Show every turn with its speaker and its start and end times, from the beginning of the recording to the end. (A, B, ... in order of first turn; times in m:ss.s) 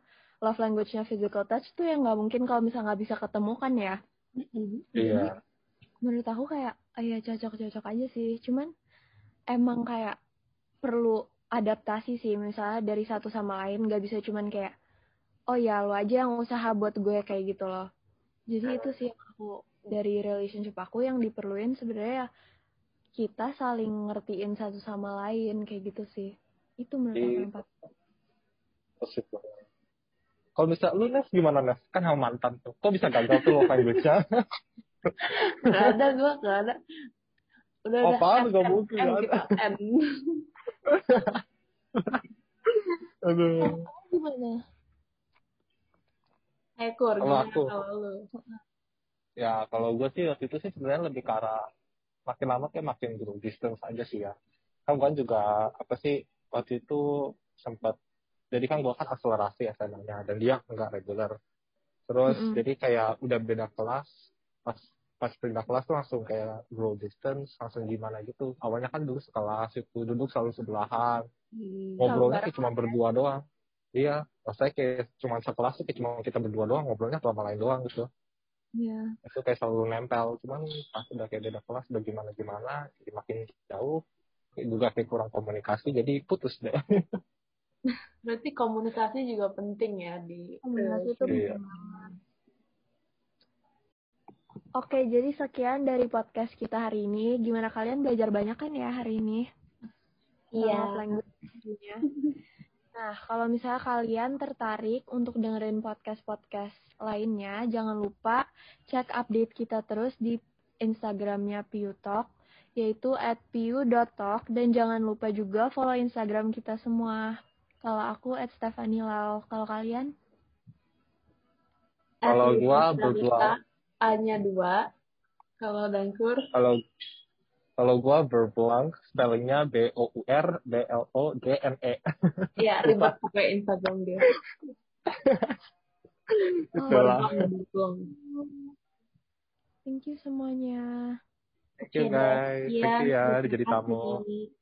0:00.4-0:04.0 A
0:04.4-0:04.9 B
0:05.0-0:05.3 C
0:05.0-0:05.3 A
0:06.0-0:08.7 A
0:09.5-0:10.2 A
0:10.8-0:14.7 A
0:15.5-0:17.8 A
0:18.5-0:22.3 A
0:18.6-0:18.9 C
0:23.2-0:27.7 A
0:27.2-0:27.5 C
0:29.0-0:29.6 C
0:30.6-0:34.2 C
0:33.3-0:33.8 B
0:35.4-0:36.7 B
0:37.8-0:40.0 B
0:38.0-0:39.4 C
0:40.9-0:41.4 C
0:43.3-0:43.8 C
0:43.6-0:44.6 A
0:46.8-0:48.2 B
0:47.2-0:47.7 C
0:49.4-0:51.6 C
0:52.3-0:54.3 C
0:54.9-0:57.0 C
0:57.6-0:57.9 C
0:58.5-1:01.3 C
1:02.1-1:04.0 C
1:02.3-1:02.6 A
1:04.6-1:11.2 C
1:11.6-1:12.2 B
1:12.0-1:13.4 C
1:12.0-1:13.0 A
1:13.9-1:18.1 C
1:18.8-1:19.1 A
1:19.2-1:24.0 C
1:24.6-1:26.8 C
1:28.2-1:32.1 B
1:30.6-1:32.1 A
1:31.3-1:31.6 C
1:34.8-1:39.5 A
1:40.6-1:41.1 B
1:40.6-1:42.0 A
1:42.9-1:52.3 A
1:52.8-1:57.2 A
1:57.8-2:00.1 A
2:02.2-2:04.8 B
2:02.2-2:03.5 C
2:05.6-2:06.4 B
2:06.5-2:06.8 C
2:07.8-2:13.1 C
2:12.6-2:14.2 B
2:15.3-2:15.5 C
2:16.7-2:17.4 A
2:16.8-2:17.3 C
2:16.9-2:18.0 B
2:18.2-2:18.7 A
2:19.8-2:20.9 A
2:21.8-2:24.2 C
2:21.9-2:24.4 B